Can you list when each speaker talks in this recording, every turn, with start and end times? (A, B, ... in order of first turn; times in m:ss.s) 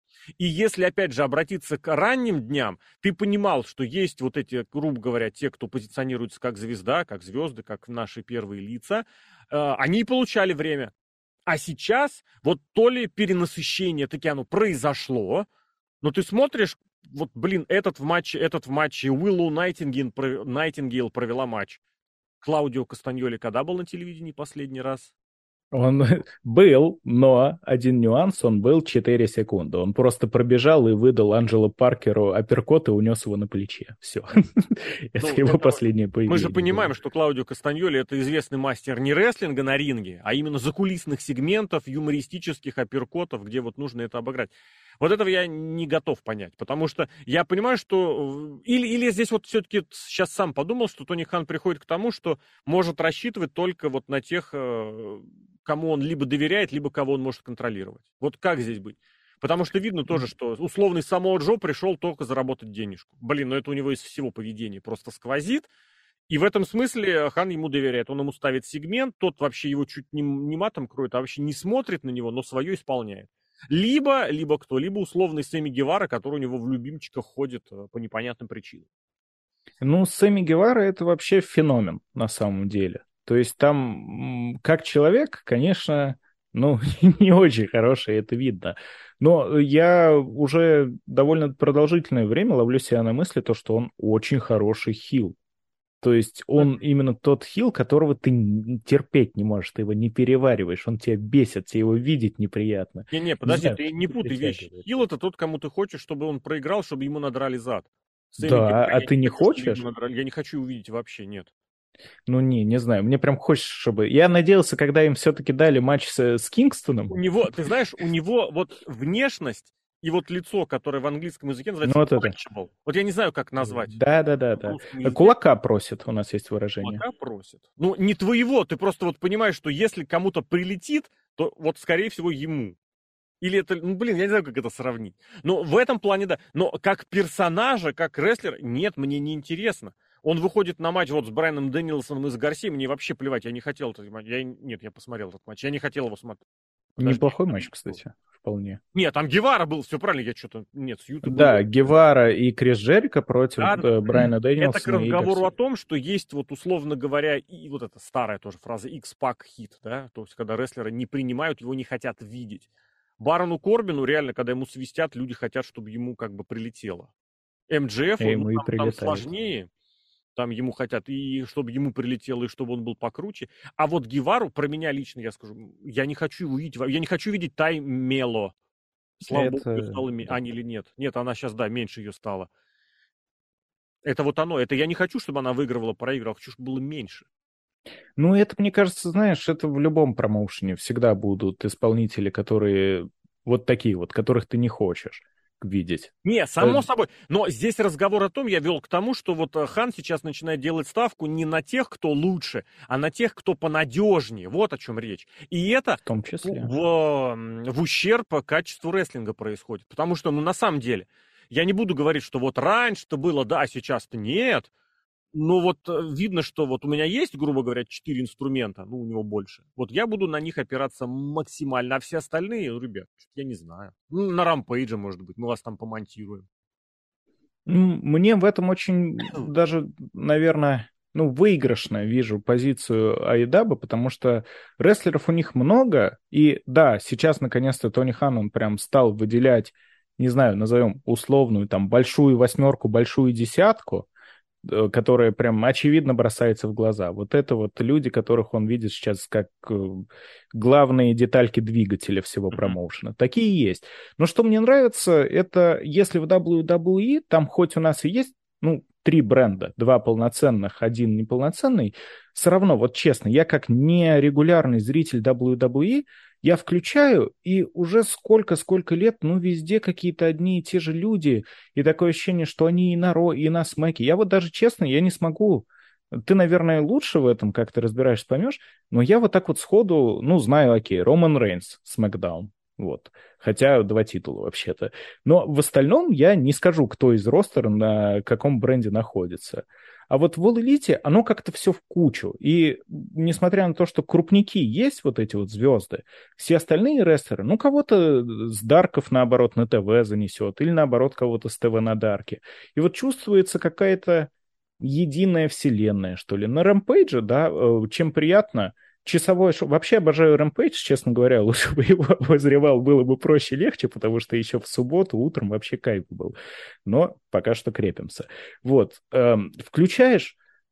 0:00.4-0:10.9 A
0:11.5-0:15.5 A
0:16.0-0:21.8 A
0:22.4-0:25.1 A
0:25.7-0:36.9 B
0:35.2-1:05.7 A
1:06.3-1:18.9 A
1:19.8-1:35.4 B
1:36.0-1:45.0 B
1:43.1-1:51.5 A
1:48.4-1:49.8 B
1:52.3-1:57.1 B
1:57.1-2:04.0 A
2:01.8-2:02.4 B
2:03.6-2:07.0 B
2:04.5-2:05.4 A
2:06.8-2:12.8 A
2:13.4-2:26.4 A
2:27.0-2:28.8 B
2:27.0-2:28.0 A
2:28.9-2:31.7 A
2:31.2-2:35.4 B
2:33.6-2:42.7 A
2:43.2-2:47.1 A
2:47.7-2:49.7 A
2:48.2-2:49.3 B
2:50.4-2:58.6 A
2:59.2-3:00.4 B
2:59.3-3:02.5 A
3:04.0-3:07.3 A
3:08.2-3:16.8 B
3:16.2-3:34.7 A
3:26.0-3:26.7 B
3:35.3-3:46.5 A
3:47.6-4:04.1 B
4:04.6-5:16.3 B
5:16.8-5:20.4 B